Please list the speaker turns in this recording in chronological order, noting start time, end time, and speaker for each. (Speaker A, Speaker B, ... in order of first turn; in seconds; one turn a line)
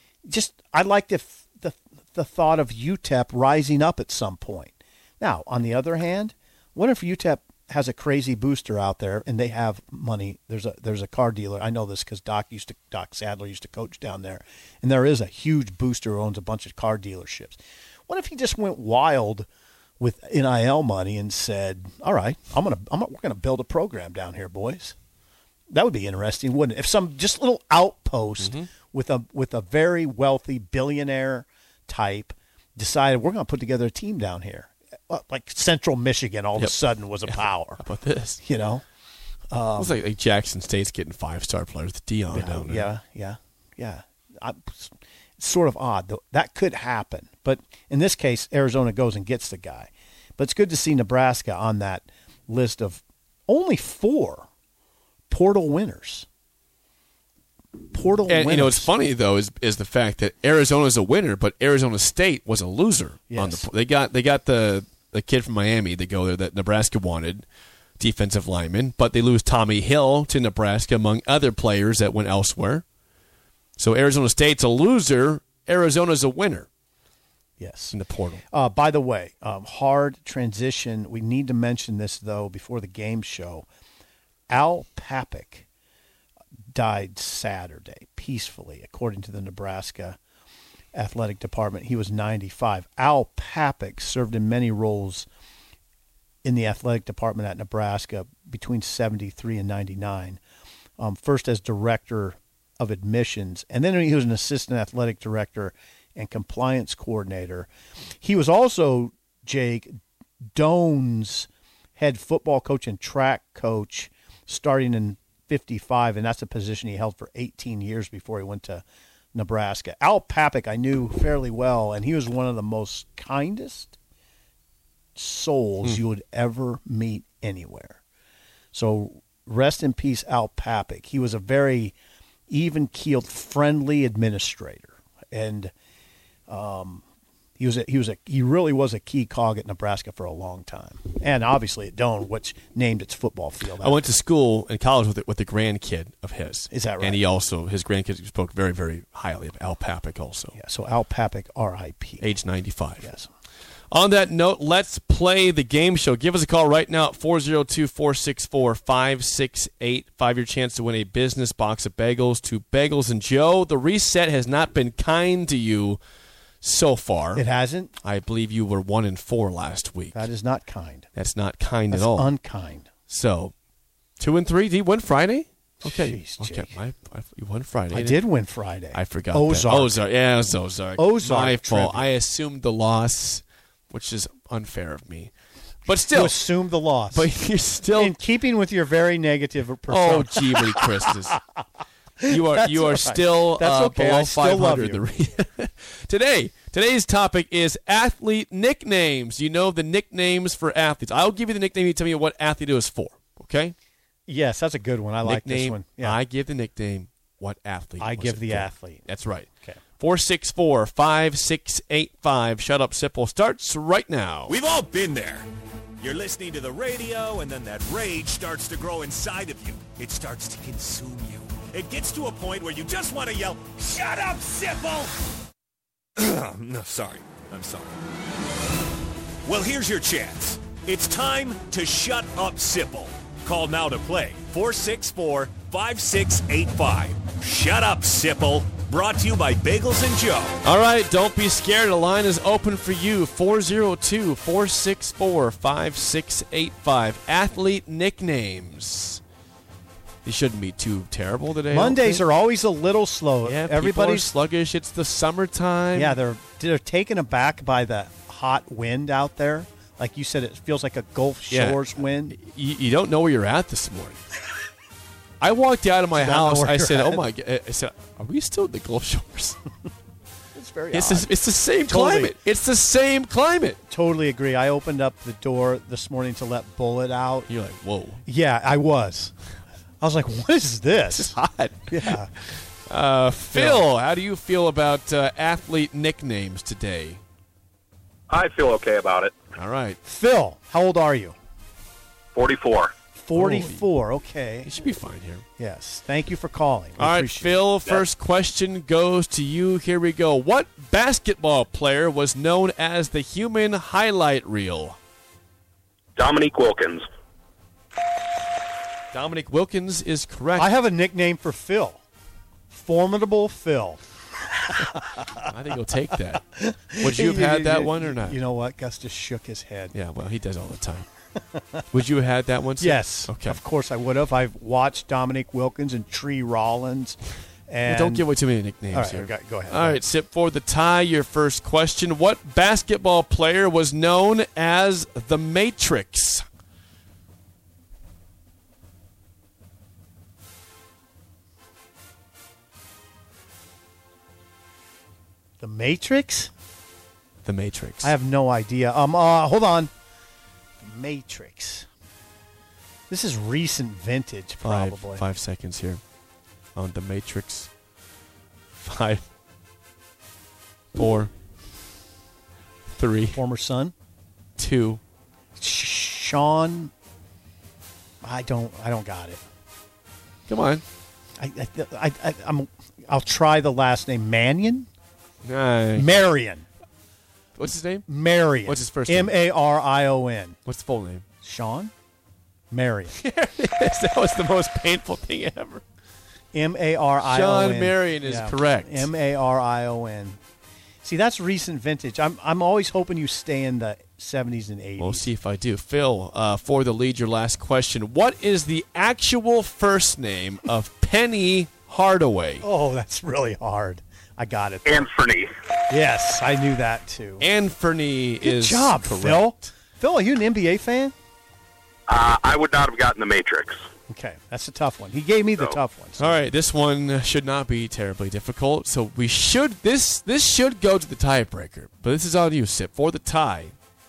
Speaker A: 0.3-19.5
Speaker A: 20.0-24.9
Speaker A: 25.7-37.8
Speaker B: 28.4-28.7
Speaker B: 36.6-38.4
Speaker A: 38.4-38.8
Speaker A: 39.5-40.0
Speaker B: 39.8-42.9
Speaker A: 42.3-54.5
Speaker A: 55.3-56.2
Speaker A: 57.9-58.9
Speaker B: 58.3-67.5
Speaker A: 63.3-63.7
Speaker B: 68.0-72.8
Speaker B: 73.8-76.7
Speaker A: 77.6-78.0
Speaker B: 77.9-78.4
Speaker A: 78.5-83.7
Speaker A: 84.5-85.7
Speaker A: 86.7-90.2
Speaker A: 90.9-95.2
Speaker A: 96.4-100.4
Speaker A: 101.0-107.7
Speaker A: 108.2-110.0
Speaker A: 110.5-118.8
Speaker A: 119.3-123.9
Speaker A: 125.2-128.0
Speaker A: 128.7-131.9
Speaker A: 132.5-135.7
Speaker A: 136.5-137.0
Speaker A: 137.6-144.0
Speaker B: 143.8-150.6
Speaker A: 146.7-147.2
Speaker A: 150.5-152.3
Speaker B: 152.2-153.1
Speaker A: 153.0-153.3
Speaker B: 153.9-166.0
Speaker B: 166.6-167.4
Speaker A: 167.3-167.9
Speaker B: 168.0-170.3
Speaker A: 170.1-171.1
Speaker B: 171.1-172.3
Speaker A: 171.9-172.9
Speaker B: 173.1-173.5
Speaker B: 174.2-178.2
Speaker A: 175.8-176.8
Speaker A: 177.9-180.0
Speaker B: 178.9-185.3
Speaker A: 181.0-182.1
Speaker B: 185.8-186.4
Speaker A: 186.1-187.3
Speaker B: 187.1-188.1
Speaker A: 187.9-191.4
Speaker B: 189.9-191.4
Speaker A: 192.2-195.0
Speaker B: 192.2-203.7
Speaker A: 204.3-206.2
Speaker B: 205.2-214.6
Speaker A: 208.0-209.1
Speaker C: 214.5-215.5
Speaker C: 216.0-225.2
Speaker C: 226.2-227.9
Speaker C: 229.4-240.6
Speaker B: 240.6-249.2
Speaker B: 250.2-252.2
Speaker A: 251.7-254.3
Speaker B: 253.4-256.2
Speaker A: 255.9-262.4
Speaker B: 261.5-264.2
Speaker B: 265.4-269.6
Speaker A: 266.1-267.2
Speaker A: 270.5-271.3
Speaker B: 270.9-273.8
Speaker A: 271.9-272.3
Speaker A: 273.9-277.5
Speaker B: 277.5-278.2
Speaker A: 278.2-279.3
Speaker A: 280.0-281.4
Speaker B: 281.1-287.2
Speaker A: 281.9-282.3
Speaker A: 283.5-283.9
Speaker D: 288.3-289.4
Speaker B: 289.5-290.0
Speaker A: 290.0-291.3
Speaker D: 292.3-292.9
Speaker A: 293.1-294.7
Speaker B: 293.3-293.9
Speaker B: 294.6-295.4
Speaker A: 295.6-297.6
Speaker B: 297.0-305.0
Speaker D: 306.1-307.0
Speaker B: 309.1-310.7
Speaker A: 310.5-312.0
Speaker A: 312.7-314.0
Speaker A: 314.6-315.4
Speaker B: 315.4-316.4
Speaker A: 316.3-319.9
Speaker B: 317.0-318.4
Speaker B: 319.9-321.1
Speaker B: 321.9-323.6
Speaker A: 322.8-328.2
Speaker B: 327.9-336.4
Speaker A: 328.9-330.0
Speaker A: 345.6-346.5
Speaker B: 347.4-348.1
Speaker A: 348.0-349.9
Speaker A: 350.8-351.9
Speaker A: 353.1-355.2
Speaker B: 354.6-356.0
Speaker B: 356.7-357.7
Speaker B: 358.7-359.2
Speaker B: 360.9-361.3
Speaker B: 362.9-363.4
Speaker A: 363.3-363.9
Speaker B: 364.6-365.0
Speaker A: 365.6-366.9
Speaker A: 368.2-369.4
Speaker B: 370.5-370.8
Speaker A: 371.4-374.9
Speaker B: 375.4-376.2
Speaker A: 375.9-376.6
Speaker B: 377.6-378.1
Speaker A: 378.1-380.6
Speaker B: 378.6-379.4
Speaker B: 380.6-381.2
Speaker A: 381.4-381.9
Speaker A: 382.7-383.1
Speaker B: 383.1-385.8
Speaker A: 386.5-390.4
Speaker B: 387.2-389.1
Speaker A: 391.0-395.3
Speaker B: 395.0-402.6
Speaker A: 402.6-405.1
Speaker D: 404.8-405.5
Speaker A: 405.9-407.5
Speaker B: 407.4-409.7
Speaker A: 408.4-411.1
Speaker D: 412.1-413.8
Speaker A: 414.1-416.4
Speaker B: 416.2-423.8